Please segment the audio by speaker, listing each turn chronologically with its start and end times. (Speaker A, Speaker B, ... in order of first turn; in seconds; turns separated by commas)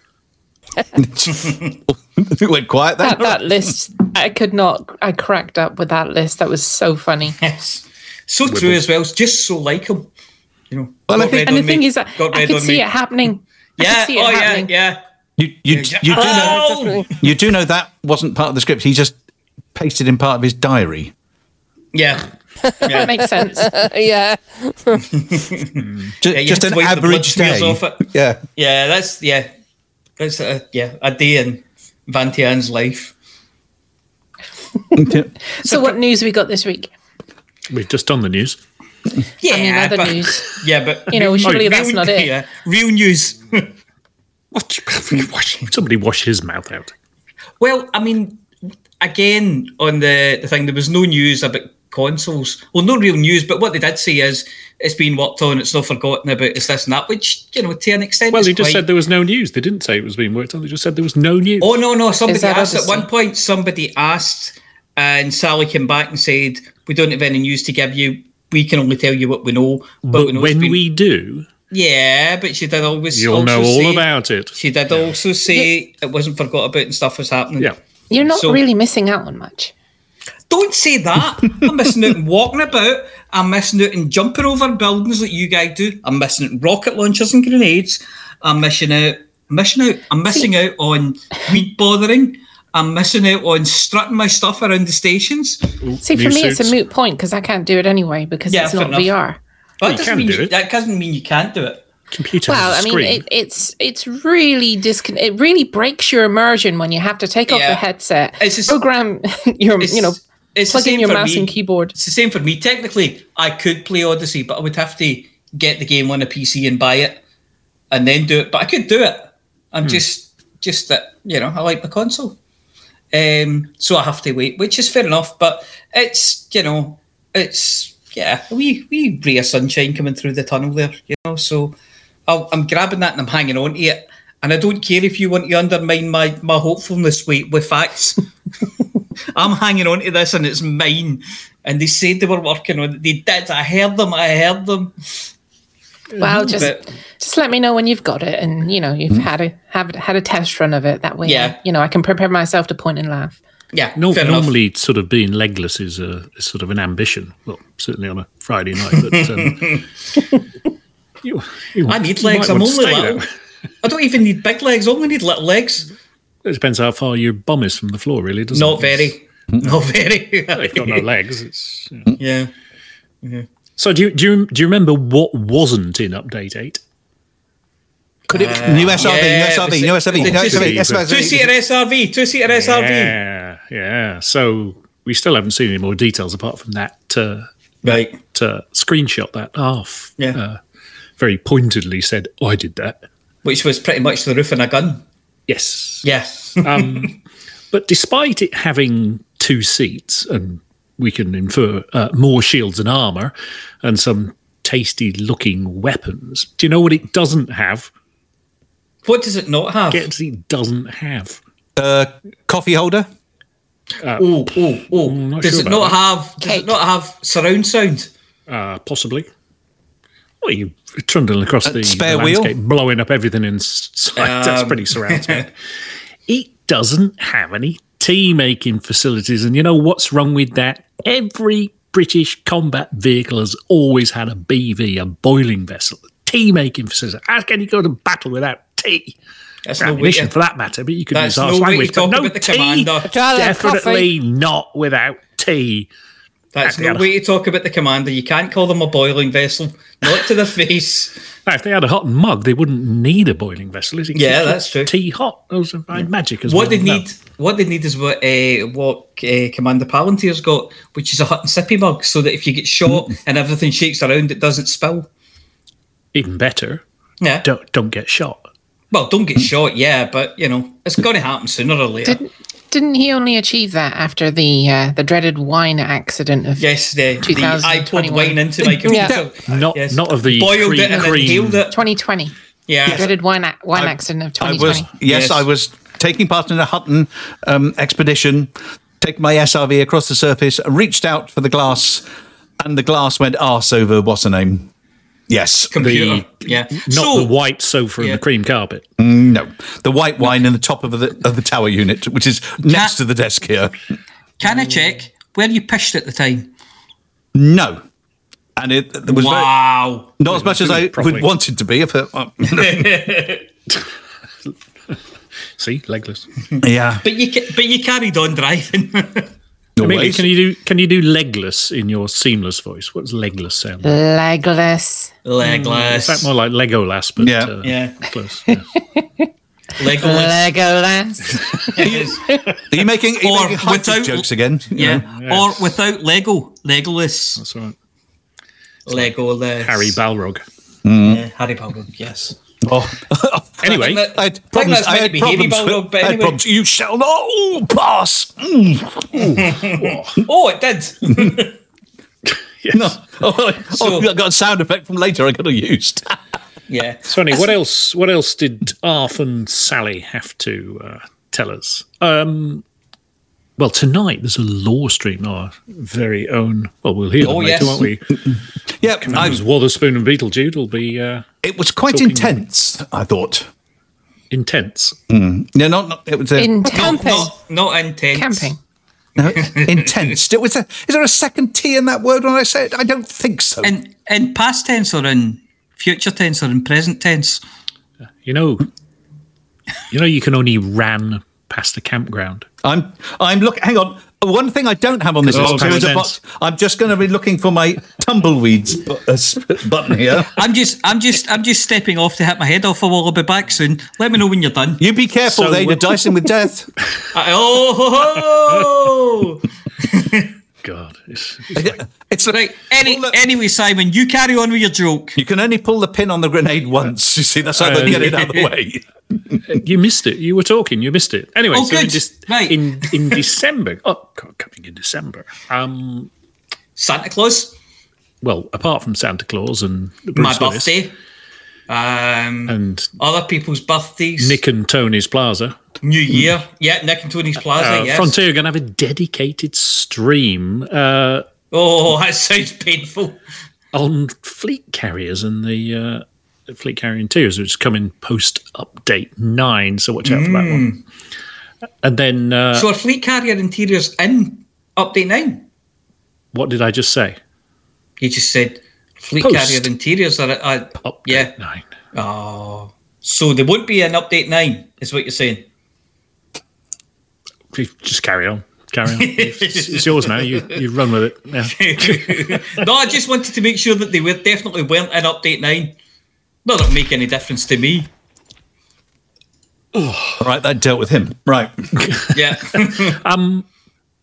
Speaker A: 0.9-3.7, Speaker B: 3.0-7.4, Speaker C: 7.4-10.1, Speaker D: 8.5-8.8, Speaker C: 10.7-12.9, Speaker A: 11.1-11.5, Speaker B: 11.3-14.7, Speaker C: 13.8-15.0, Speaker A: 15.4-19.2, Speaker C: 15.7-17.3, Speaker A: 19.7-21.1, Speaker C: 21.9-22.2, Speaker C: 22.8-23.1, Speaker B: 22.9-23.7, Speaker E: 23.6-25.0, Speaker C: 25.2-25.7, Speaker D: 25.8-26.1, Speaker A: 26.2-28.4, Speaker C: 26.3-28.0, Speaker C: 28.6-29.5, Speaker C: 30.2-33.1, Speaker B: 34.9-36.9, Speaker A: 35.0-35.3, Speaker D: 37.7-38.6, Speaker C: 39.4-43.7, Speaker B: 39.5-40.6, Speaker B: 41.1-42.3, Speaker D: 41.4-41.7, Speaker D: 44.5-46.9, Speaker C: 47.6-48.5, Speaker C: 49.0-58.8, Speaker D: 58.3-61.7, Speaker C: 61.6-70.8, Speaker B: 62.3-63.1, Speaker D: 70.0-71.5, Speaker C: 71.7-78.6, Speaker D: 73.1-75.1, Speaker B: 78.1-79.7, Speaker C: 80.5-95.6, Speaker D: 95.8-96.8, Speaker B: 96.0-99.4, Speaker C: 98.5-99.1, Speaker C: 99.8-101.8, Speaker D: 99.8-100.5, Speaker D: 102.1-103.2, Speaker B: 102.5-110.2, Speaker C: 107.5-107.8, Speaker C: 108.4-108.8, Speaker C: 109.8-117.2, Speaker B: 110.7-111.9, Speaker C: 117.9-122.4, Speaker C: 123.1-131.8, Speaker C: 132.3-138.2, Speaker C: 139.3-144.9, Speaker D: 146.1-146.7, Speaker B: 146.2-153.4, Speaker C: 146.4-146.8, Speaker C: 151.2-151.6, Speaker C: 153.7-154.5, Speaker D: 153.9-159.7, Speaker C: 158.9-159.8, Speaker D: 161.2-163.3, Speaker C: 161.9-163.2, Speaker C: 163.8-165.9, Speaker D: 166.4-169.2, Speaker C: 168.5-171.1, Speaker D: 170.5-172.1, Speaker C: 172.2-172.5, Speaker D: 173.8-176.8, Speaker C: 178.3-183.2, Speaker A: 178.3-181.4, Speaker D: 180.2-181.4, Speaker D: 182.5-190.6, Speaker C: 187.8-188.2, Speaker D: 191.2-193.0, Speaker C: 193.4-195.0, Speaker D: 195.5-196.1, Speaker C: 196.0-197.1, Speaker D: 196.6-197.2, Speaker D: 197.7-207.9, Speaker C: 209.1-210.1, Speaker D: 209.9-211.4, Speaker A: 211.8-213.1, Speaker D: 214.0-216.0, Speaker C: 214.2-218.1, Speaker B: 216.4-216.7, Speaker D: 218.5-219.3, Speaker D: 220.4-225.5, Speaker A: 221.6-222.5, Speaker C: 224.1-225.4, Speaker D: 226.3-239.2, Speaker C: 239.7-240.3, Speaker D: 239.8-245.9, Speaker C: 241.1-243.1, Speaker E: 243.1-244.1, Speaker C: 246.5-251.1, Speaker D: 246.6-247.1, Speaker D: 251.4-257.1, Speaker C: 254.1-254.9, Speaker C: 255.9-265.1, Speaker D: 266.1-266.8, Speaker C: 267.2-267.5, Speaker D: 267.4-268.5, Speaker C: 268.9-272.2, Speaker B: 272.1-276.7, Speaker C: 276.6-281.7, Speaker B: 277.2-278.4, Speaker A: 278.6-279.2, Speaker D: 279.5-281.7, Speaker B: 281.7-282.3, Speaker C: 282.7-283.1, Speaker B: 282.9-284.9, Speaker A: 283.7-292.1, Speaker C: 285.1-285.4, Speaker A: 292.6-294.7, Speaker A: 295.3-295.7, Speaker C: 295.7-297.4, Speaker D: 295.8-298.8, Speaker C: 298.0-298.2, Speaker A: 299.0-303.7, Speaker C: 302.6-302.9, Speaker C: 304.4-306.5, Speaker D: 304.4-304.8, Speaker A: 307.3-307.8, Speaker A: 308.6-309.5, Speaker C: 309.1-310.1, Speaker A: 310.2-313.0, Speaker D: 310.3-311.3, Speaker C: 312.4-313.4, Speaker D: 315.6-316.3, Speaker A: 316.6-317.0, Speaker C: 317.0-319.3, Speaker A: 319.8-320.3, Speaker D: 319.8-324.0, Speaker B: 323.8-325.1, Speaker C: 325.3-326.3, Speaker D: 325.4-328.6, Speaker A: 327.2-327.5, Speaker C: 327.6-328.0, Speaker B: 328.9-329.2, Speaker C: 329.8-330.5, Speaker B: 330.0-331.3, Speaker C: 331.7-332.2, Speaker A: 331.8-332.1, Speaker A: 332.7-335.0, Speaker C: 333.2-337.4, Speaker D: 335.1-335.7, Speaker D: 337.4-337.8, Speaker C: 338.9-340.0, Speaker D: 338.9-340.4, Speaker A: 340.8-341.2, Speaker C: 341.1-342.4, Speaker A: 342.6-349.1, Speaker D: 343.6-344.0, Speaker C: 343.7-346.4, Speaker D: 349.2-350.2, Speaker C: 349.2-349.7, Speaker C: 350.3-351.5, Speaker D: 352.6-353.0, Speaker A: 352.7-356.2, Speaker C: 353.7-354.1, Speaker C: 356.7-357.5, Speaker D: 357.1-362.6, Speaker D: 363.6-368.1, Speaker C: 367.2-367.9, Speaker A: 368.8-369.4, Speaker D: 369.0-371.3, Speaker C: 369.1-369.4, Speaker A: 371.4-373.5, Speaker D: 371.9-372.4, Speaker D: 374.3-375.0, Speaker A: 375.1-377.2, Speaker B: 376.4-377.3, Speaker C: 376.7-378.5, Speaker B: 378.1-378.6, Speaker A: 379.2-383.7, Speaker C: 379.2-380.1, Speaker C: 383.6-387.4, Speaker D: 388.2-388.7, Speaker D: 389.9-392.5, Speaker A: 392.6-400.3, Speaker D: 395.2-396.2, Speaker C: 395.3-395.7, Speaker C: 400.4-404.8, Speaker A: 404.8-406.7, Speaker D: 405.3-406.2, Speaker C: 407.1-409.4, Speaker C: 409.9-410.3, Speaker D: 410.6-411.8, Speaker A: 411.6-413.2, Speaker C: 412.3-415.2, Speaker A: 415.2-418.8, Speaker D: 417.6-418.3, Speaker C: 417.6-418.5, Speaker D: 419.5-426.1, Speaker C: 421.5-423.2, Speaker C: 426.8-427.5, Speaker D: 428.2-430.8, Speaker C: 430.2-430.9, Speaker C: 431.7-434.4, Speaker D: 432.5-432.9, Speaker D: 434.2-435.6, Speaker C: 435.8-438.2, Speaker D: 437.6-441.3, Speaker C: 441.5-443.2, Speaker D: 443.7-450.7, Speaker C: 450.0-450.8, Speaker D: 451.8-452.7, Speaker C: 452.5-455.4, Speaker D: 456.3-457.2, Speaker C: 458.0-461.3, Speaker D: 459.2-459.7, Speaker D: 460.8-461.7, Speaker C: 461.9-465.4, Speaker D: 467.5-472.7, Speaker C: 468.9-470.6, Speaker C: 471.5-475.8, Speaker C: 476.4-477.9, Speaker D: 479.7-480.3, Speaker A: 480.2-481.5, Speaker D: 481.8-483.4, Speaker C: 482.1-482.9